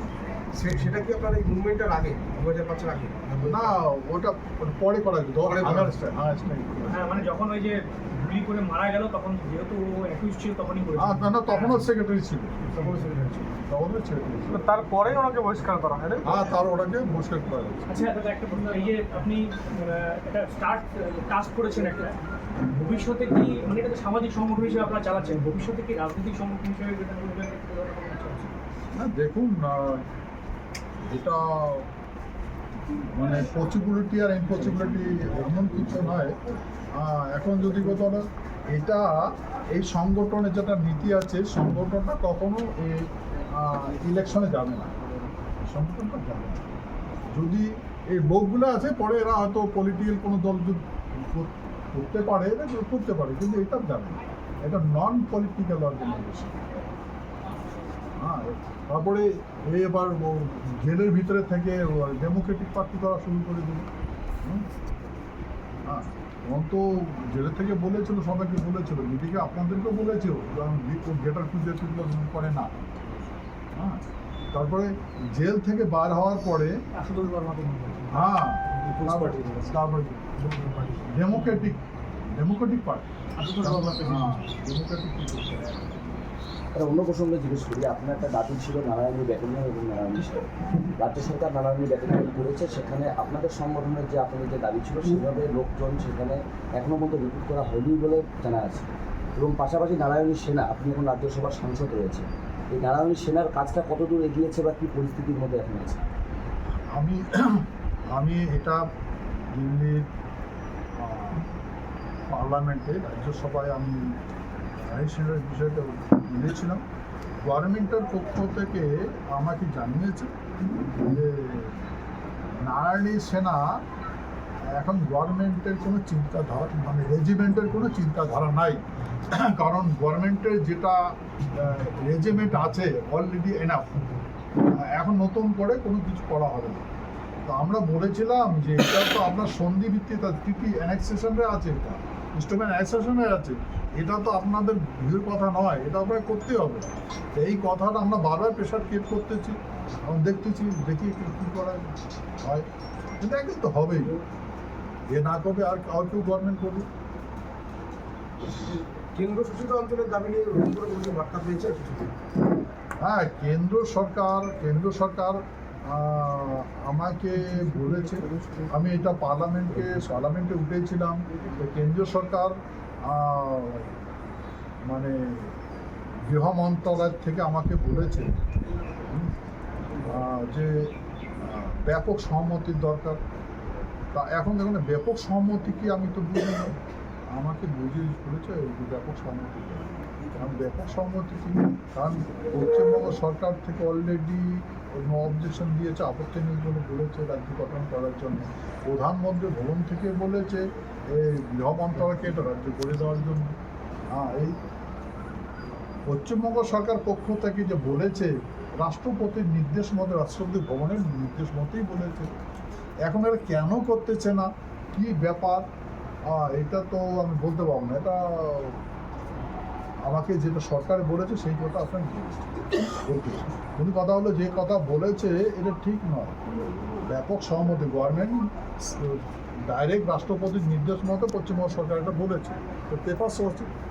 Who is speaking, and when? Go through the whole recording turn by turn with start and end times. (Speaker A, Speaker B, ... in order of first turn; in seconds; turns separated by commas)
Speaker A: 0.5-3.8, Speaker B: 3.4-7.0, Speaker A: 5.4-6.0, Speaker C: 6.9-11.8, Speaker B: 11.0-12.6, Speaker C: 13.0-13.3, Speaker B: 13.6-14.6, Speaker D: 14.5-16.5, Speaker B: 16.2-18.1, Speaker C: 17.9-28.5, Speaker B: 28.9-30.0, Speaker B: 31.0-31.9, Speaker B: 33.1-36.4, Speaker B: 37.0-45.0, Speaker B: 45.6-46.6, Speaker B: 47.3-56.6, Speaker B: 58.2-63.9, Speaker B: 65.9-72.8, Speaker B: 73.8-74.0, Speaker B: 74.5-76.8, Speaker C: 76.9-78.3, Speaker B: 78.1-80.3, Speaker C: 78.8-79.4, Speaker C: 80.4-80.9, Speaker B: 81.1-81.8, Speaker B: 82.3-86.0, Speaker C: 83.4-84.4, Speaker E: 86.7-106.0, Speaker B: 106.9-108.8, Speaker B: 109.5-110.0, Speaker B: 111.0-111.5, Speaker B: 112.3-114.1, Speaker B: 114.8-116.8, Speaker B: 117.4-120.3, Speaker B: 120.9-121.8, Speaker B: 122.6-123.6, Speaker B: 124.7-133.9, Speaker B: 134.8-136.8, Speaker B: 137.5-149.6, Speaker B: 150.1-151.8, Speaker B: 153.2-154.2, Speaker B: 155.1-156.9, Speaker A: 158.7-162.1, Speaker B: 163.0-173.9, Speaker B: 174.9-175.5, Speaker B: 176.3-178.4, Speaker B: 180.0-180.9, Speaker B: 181.4-183.2, Speaker B: 184.1-186.7, Speaker B: 187.3-203.5, Speaker B: 204.1-204.6, Speaker B: 206.1-212.3, Speaker B: 213.1-215.6, Speaker B: 216.3-218.8, Speaker B: 220.1-222.5, Speaker B: 223.0-226.4, Speaker B: 227.0-233.7